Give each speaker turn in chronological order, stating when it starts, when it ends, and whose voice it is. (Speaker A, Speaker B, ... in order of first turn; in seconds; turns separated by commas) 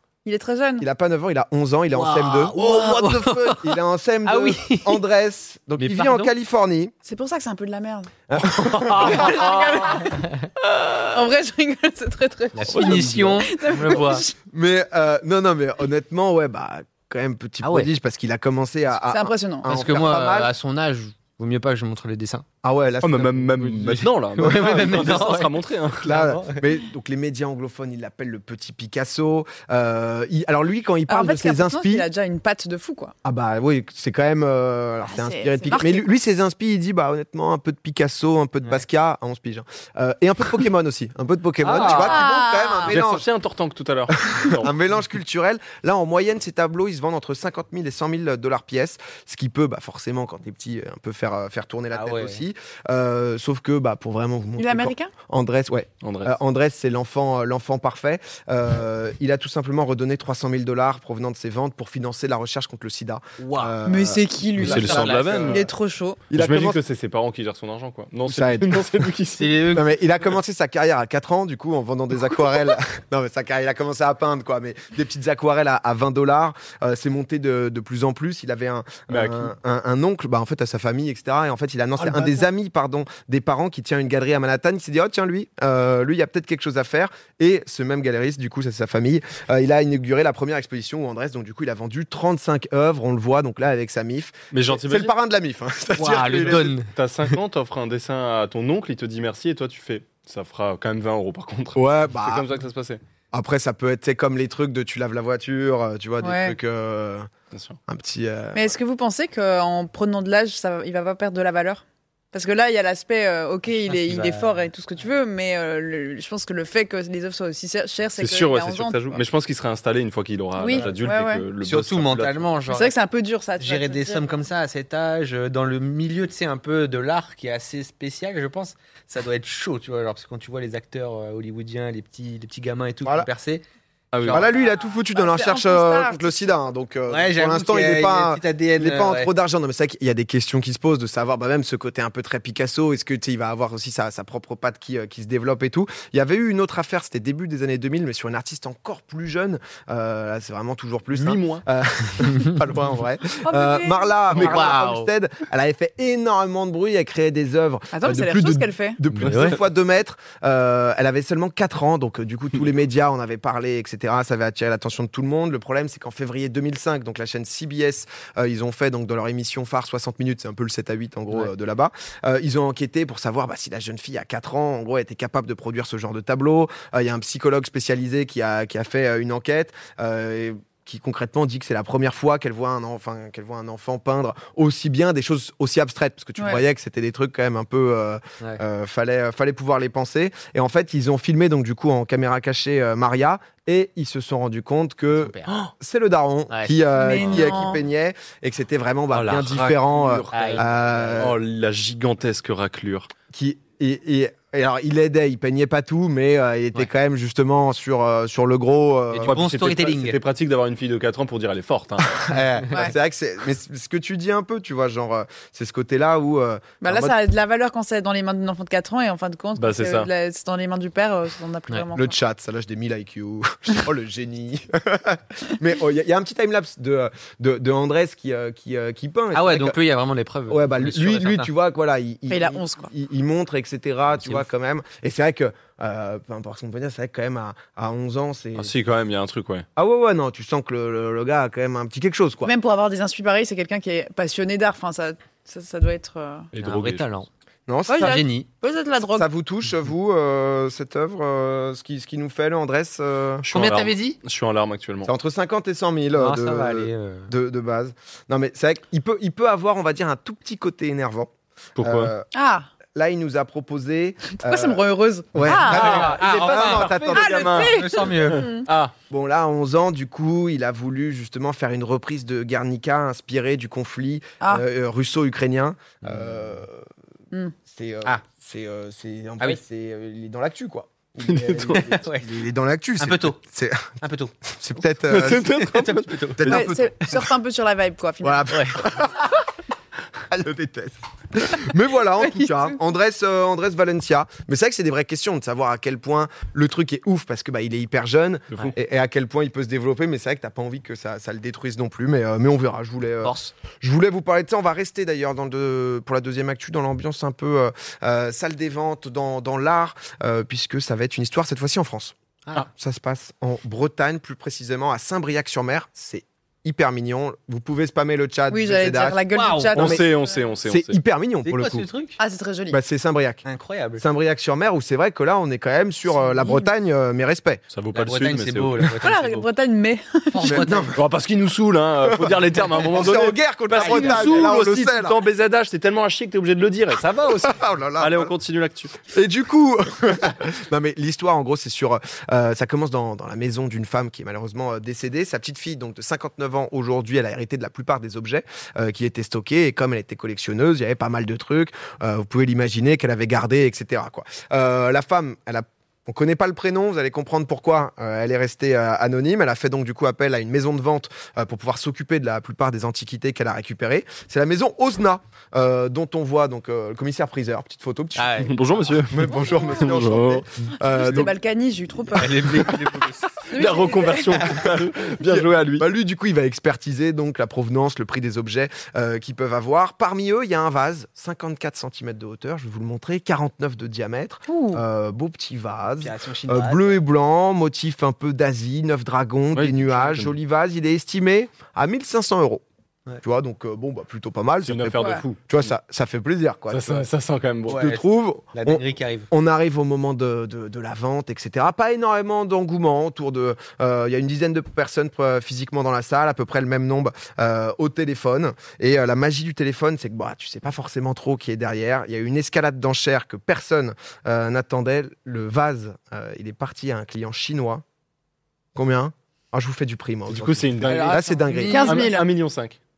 Speaker A: 0.2-0.9, Speaker B: 0.8-6.9, Speaker C: 1.9-5.0, Speaker C: 5.8-6.3, Speaker A: 7.0-8.2, Speaker B: 8.3-9.4, Speaker D: 8.5-9.9, Speaker C: 8.9-9.3, Speaker A: 9.0-14.3, Speaker C: 10.1-10.3, Speaker C: 12.6-14.3, Speaker D: 12.8-13.3, Speaker B: 14.5-20.5, Speaker C: 17.6-17.9, Speaker A: 19.1-19.8, Speaker C: 19.6-22.4, Speaker B: 22.6-23.5, Speaker D: 23.0-26.1, Speaker C: 23.4-26.7, Speaker B: 24.5-25.1, Speaker B: 26.0-32.1, Speaker A: 31.1-33.1, Speaker B: 33.2-43.3, Speaker A: 35.1-36.1, Speaker D: 41.6-42.2, Speaker C: 41.6-42.1, Speaker A: 41.9-43.0, Speaker D: 42.8-44.7, Speaker B: 44.1-64.2, Speaker C: 51.9-52.4, Speaker A: 54.6-55.1, Speaker D: 56.0-56.4, Speaker C: 63.4-63.8, Speaker A: 63.9-66.2, Speaker D: 64.6-65.7, Speaker C: 64.6-65.7, Speaker B: 66.3-66.8, Speaker D: 66.3-69.6, Speaker B: 68.3-69.1, Speaker C: 69.4-70.0, Speaker B: 69.7-96.8, Speaker D: 79.1-79.5, Speaker D: 82.0-82.4, Speaker D: 94.5-95.1, Speaker C: 96.0-96.9, Speaker D: 96.3-103.0, Speaker B: 101.8-102.5, Speaker B: 103.3-107.3, Speaker A: 106.2-106.6, Speaker D: 107.5-107.8, Speaker B: 107.9-108.8, Speaker A: 108.5-111.8, Speaker A: 112.3-119.2, Speaker C: 113.9-114.7, Speaker D: 118.2-122.5, Speaker A: 120.6-121.5, Speaker C: 121.6-122.9, Speaker A: 122.7-124.4, Speaker C: 123.6-133.7, Speaker B: 133.0-133.3, Speaker D: 134.1-134.4, Speaker C: 134.2-134.5, Speaker B: 134.3-201.4, Speaker A: 134.5-136.6, Speaker C: 137.1-139.3, Speaker D: 151.1-151.6, Speaker A: 153.4-154.4, Speaker D: 154.3-154.6, Speaker C: 154.3-155.1, Speaker A: 157.9-159.0, Speaker D: 159.1-159.6, Speaker C: 159.2-159.6, Speaker A: 186.4-186.6, Speaker C: 195.2-195.6, Speaker C: 196.5-197.4, Speaker A: 197.0-197.8, Speaker D: 199.1-203.1, Speaker C: 200.3-201.3, Speaker B: 203.3-209.4, Speaker C: 209.1-210.2, Speaker D: 209.2-212.3, Speaker B: 212.1-217.2, Speaker A: 216.8-222.2, Speaker D: 219.6-220.1, Speaker B: 221.9-229.8, Speaker C: 229.3-231.5, Speaker B: 230.5-238.7, Speaker A: 232.3-232.9, Speaker D: 238.6-239.7, Speaker B: 239.8-242.5, Speaker A: 242.4-246.5, Speaker D: 246.5-247.1, Speaker C: 246.6-247.3, Speaker B: 247.7-248.1, Speaker A: 247.9-249.3, Speaker C: 248.0-248.5, Speaker B: 249.1-253.4, Speaker D: 253.4-255.1, Speaker C: 253.5-254.2, Speaker B: 255.0-262.3, Speaker C: 256.1-257.3, Speaker D: 261.8-262.1, Speaker A: 262.3-262.7, Speaker B: 262.9-267.7, Speaker A: 264.4-266.1, Speaker C: 265.4-268.5, Speaker D: 265.7-268.9, Speaker A: 267.1-268.7, Speaker B: 269.1-276.9, Speaker C: 276.0-276.6, Speaker B: 277.7-284.0, Speaker D: 281.3-282.0, Speaker C: 281.7-282.4, Speaker C: 283.0-283.4, Speaker C: 284.0-284.3, Speaker B: 284.5-285.5, Speaker D: 285.1-286.6, Speaker C: 285.5-287.2, Speaker B: 286.4-287.3, Speaker A: 286.4-288.5, Speaker B: 288.2-289.3, Speaker C: 288.5-288.9, Speaker B: 290.3-319.2, Speaker A: 292.2-292.8, Speaker C: 303.2-303.5, Speaker A: 318.5-320.5, Speaker C: 319.3-319.9, Speaker D: 319.8-321.0, Speaker B: 319.8-320.1, Speaker B: 320.6-321.9, Speaker C: 321.4-322.2, Speaker A: 322.2-322.8, Speaker B: 322.7-323.4, Speaker C: 323.4-324.0, Speaker B: 324.0-327.6, Speaker A: 326.2-326.7, Speaker D: 327.7-328.9, Speaker C: 327.9-329.5, Speaker A: 329.0-330.7, Speaker C: 330.3-330.9, Speaker B: 330.4-331.1, Speaker D: 330.9-337.1, Speaker B: 332.1-335.2, Speaker C: 333.8-334.1, Speaker A: 333.9-334.4, Speaker C: 337.0-337.5, Speaker B: 337.1-338.3, Speaker D: 338.0-339.0, Speaker B: 339.1-368.5, Speaker C: 368.2-368.5, Speaker D: 368.4-370.4, Speaker B: 369.0-371.4, Speaker A: 369.3-369.8, Speaker A: 370.8-372.4, Speaker C: 372.2-374.9, Speaker B: 372.4-372.7, Speaker A: 373.5-374.4, Speaker D: 373.5-375.9, Speaker B: 375.2-392.6, Speaker A: 384.5-384.8, Speaker C: 386.0-387.0, Speaker D: 389.5-390.3, Speaker B: 393.2-397.1, Speaker D: 394.6-395.4, Speaker A: 395.0-395.2, Speaker D: 396.7-397.8, Speaker C: 397.7-399.3, Speaker B: 397.7-417.8, Speaker B: 418.8-421.8, Speaker D: 420.3-421.3, Speaker C: 420.8-422.0, Speaker A: 421.6-422.3, Speaker D: 421.8-422.8